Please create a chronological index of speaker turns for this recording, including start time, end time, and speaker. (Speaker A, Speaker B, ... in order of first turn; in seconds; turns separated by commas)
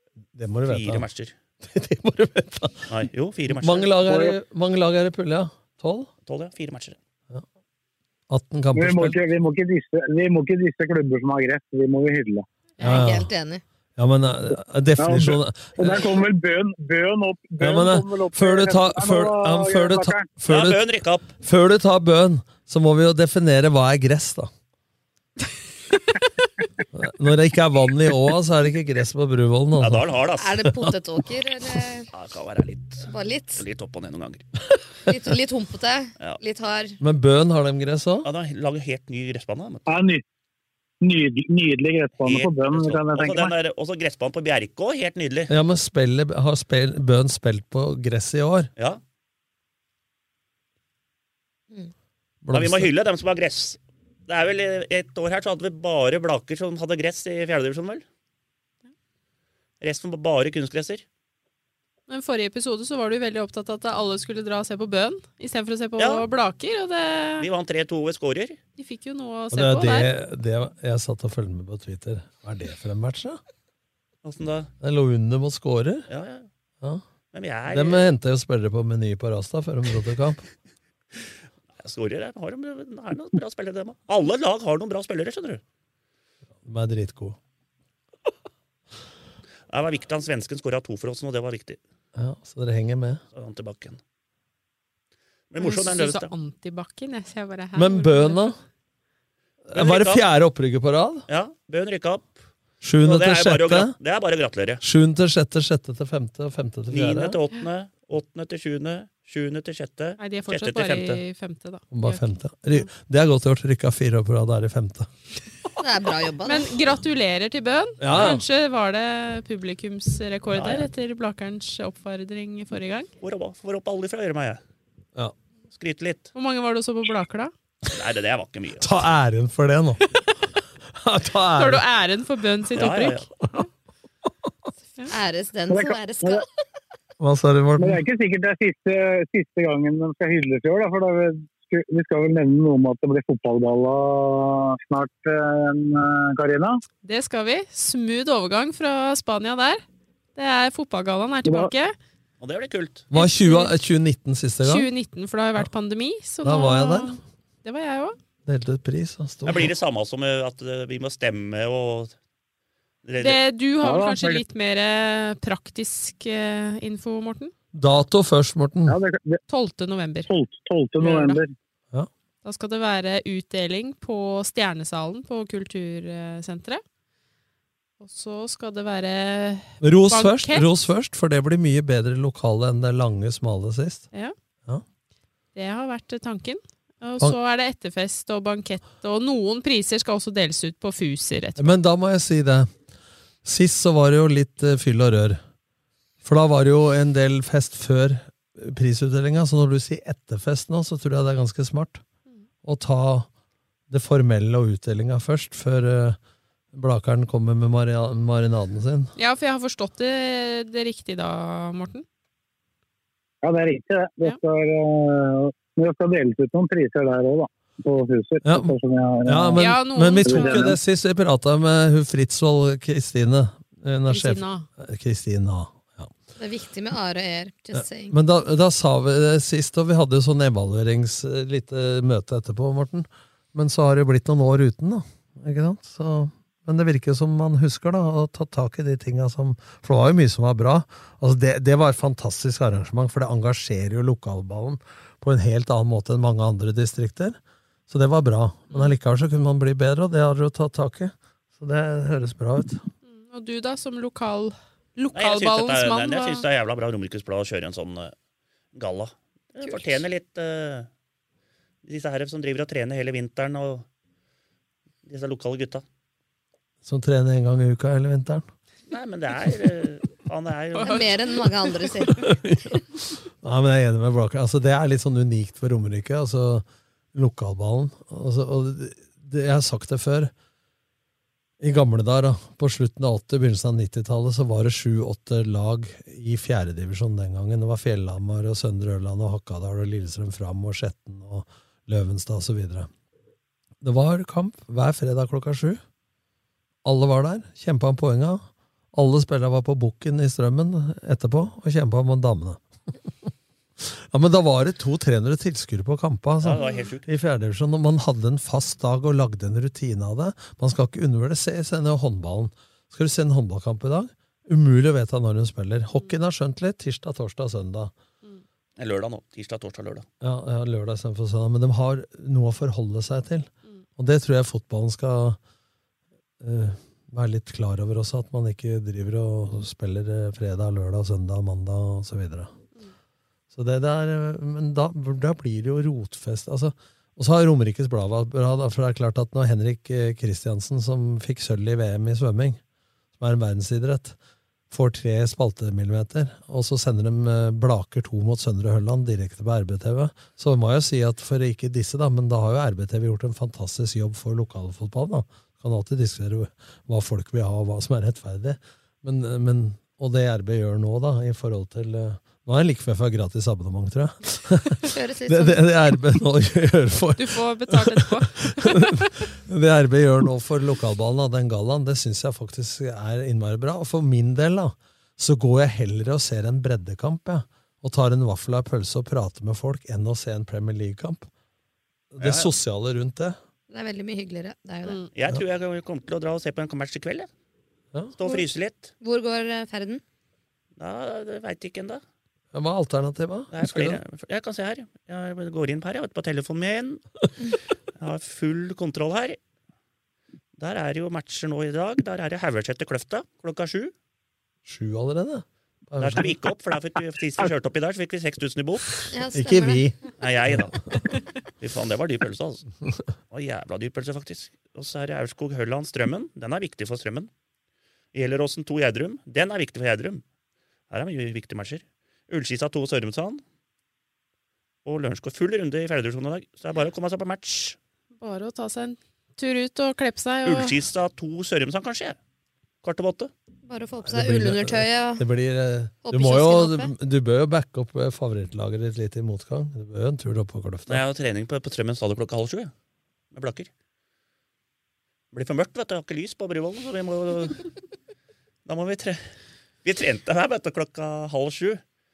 Speaker A: 0.3-1.1, Speaker B: 0.7-1.3, Speaker A: 1.6-3.0, Speaker B: 2.9-3.9, Speaker A: 3.5-6.1, Speaker C: 4.1-4.3, Speaker B: 6.3-7.0, Speaker A: 8.3-9.2, Speaker C: 8.8-12.4, Speaker D: 12.8-13.1, Speaker E: 12.8-13.6, Speaker A: 12.8-13.3, Speaker A: 14.0-16.1, Speaker C: 15.0-20.3, Speaker A: 17.6-20.8, Speaker B: 20.5-21.3, Speaker A: 21.4-24.5, Speaker D: 25.9-26.5, Speaker A: 26.9-30.1, Speaker B: 29.8-30.6, Speaker E: 30.4-32.1, Speaker A: 30.6-30.9, Speaker B: 32.1-34.5, Speaker E: 33.1-33.6, Speaker E: 35.0-37.0, Speaker A: 37.0-38.3, Speaker B: 38.2-39.9, Speaker C: 39.9-40.2, Speaker C: 41.0-43.5, Speaker B: 42.2-45.5, Speaker A: 45.5-48.7, Speaker A: 52.4-52.9, Speaker B: 52.5-58.0, Speaker B: 59.8-61.0, Speaker D: 62.1-67.5, Speaker B: 66.0-66.2, Speaker B: 67.4-68.6, Speaker D: 68.8-70.1, Speaker A: 69.5-73.4, Speaker B: 74.2-74.7, Speaker A: 74.8-76.1, Speaker B: 76.1-76.5, Speaker B: 77.3-78.1, Speaker A: 77.7-80.5, Speaker B: 81.8-85.6, Speaker A: 86.6-87.4, Speaker B: 89.7-91.8, Speaker A: 92.2-93.2, Speaker B: 93.3-94.0, Speaker B: 95.5-96.3, Speaker D: 95.6-98.5, Speaker A: 97.8-98.6, Speaker A: 99.7-101.3, Speaker B: 99.7-100.2, Speaker B: 101.3-102.4, Speaker A: 102.8-103.9, Speaker B: 103.0-104.8, Speaker A: 104.8-107.4, Speaker B: 106.9-111.2, Speaker D: 110.2-112.9, Speaker A: 111.9-115.1, Speaker E: 115.8-116.7, Speaker D: 116.5-123.1, Speaker A: 118.0-118.4, Speaker B: 120.5-120.9, Speaker B: 123.2-124.6, Speaker B: 125.7-126.3, Speaker D: 126.3-127.5, Speaker B: 127.9-128.9, Speaker A: 128.8-130.0, Speaker A: 130.9-131.8, Speaker D: 131.6-133.2, Speaker B: 132.8-133.3, Speaker E: 135.1-136.5, Speaker C: 135.7-136.4, Speaker A: 137.2-138.0, Speaker C: 137.8-146.8, Speaker D: 147.0-149.8, Speaker D: 150.3-151.9, Speaker B: 152.4-153.1, Speaker A: 153.1-154.9, Speaker D: 153.1-153.7, Speaker D: 154.6-158.2, Speaker A: 156.4-157.2, Speaker A: 158.5-159.7, Speaker B: 159.5-162.2, Speaker B: 163.0-163.4, Speaker D: 163.2-167.5, Speaker C: 163.8-164.4, Speaker A: 167.7-169.0, Speaker C: 168.9-169.4, Speaker D: 169.5-170.3, Speaker C: 170.3-171.5, Speaker D: 171.0-171.4, Speaker D: 172.4-176.8, Speaker D: 178.0-180.7, Speaker A: 179.8-184.1, Speaker D: 185.6-191.7, Speaker A: 191.6-192.7, Speaker A: 193.4-195.4, Speaker A: 196.2-202.0, Speaker A: 202.6-203.3, Speaker A: 203.9-206.2, Speaker A: 206.7-209.1, Speaker D: 209.2-212.1, Speaker C: 213.4-219.6, Speaker A: 218.4-218.7, Speaker A: 219.2-226.1, Speaker D: 219.6-220.6, Speaker C: 220.2-220.8, Speaker D: 224.1-224.7, Speaker E: 226.4-228.2, Speaker A: 227.7-252.9, Speaker D: 253.1-256.4, Speaker B: 255.2-258.1, Speaker B: 258.8-260.9, Speaker D: 259.6-260.0, Speaker B: 261.9-263.9, Speaker B: 265.1-265.8, Speaker A: 266.8-268.5, Speaker B: 268.9-271.1, Speaker D: 270.8-271.1, Speaker E: 270.8-272.4, Speaker A: 272.2-272.8, Speaker A: 273.4-280.3, Speaker A: 281.6-292.9, Speaker A: 293.8-295.8, Speaker A: 296.8-302.6, Speaker A: 303.8-317.9, Speaker B: 306.4-307.1, Speaker D: 306.6-306.9, Speaker B: 318.8-320.1, Speaker A: 320.2-325.4, Speaker A: 326.4-332.5, Speaker A: 333.5-342.6, Speaker A: 343.2-344.2, Speaker A: 344.7-381.3, Speaker E: 364.8-365.6, Speaker D: 367.2-369.1, Speaker A: 382.1-383.4, Speaker B: 382.2-382.5, Speaker E: 383.7-385.0, Speaker B: 385.1-387.3, Speaker B: 388.2-388.9, Speaker E: 389.0-390.0, Speaker B: 390.8-392.0, Speaker A: 392.5-394.0, Speaker B: 393.5-397.0, Speaker B: 398.0-399.4, Speaker B: 400.6-403.9, Speaker A: 404.6-406.3, Speaker B: 406.0-409.1, Speaker E: 409.1-409.9, Speaker A: 409.4-411.0, Speaker B: 410.2-410.7, Speaker B: 411.6-412.6, Speaker B: 413.3-417.3, Speaker B: 418.1-420.2, Speaker B: 420.9-423.4, Speaker B: 424.9-427.8, Speaker D: 428.2-430.8, Speaker B: 430.5-432.2, Speaker B: 432.8-433.3, Speaker E: 433.7-435.3, Speaker A: 434.1-441.0, Speaker E: 436.1-436.9, Speaker B: 440.9-442.7, Speaker B: 443.3-443.7, Speaker B: 445.3-447.7, Speaker B: 448.7-449.3, Speaker B: 449.8-451.8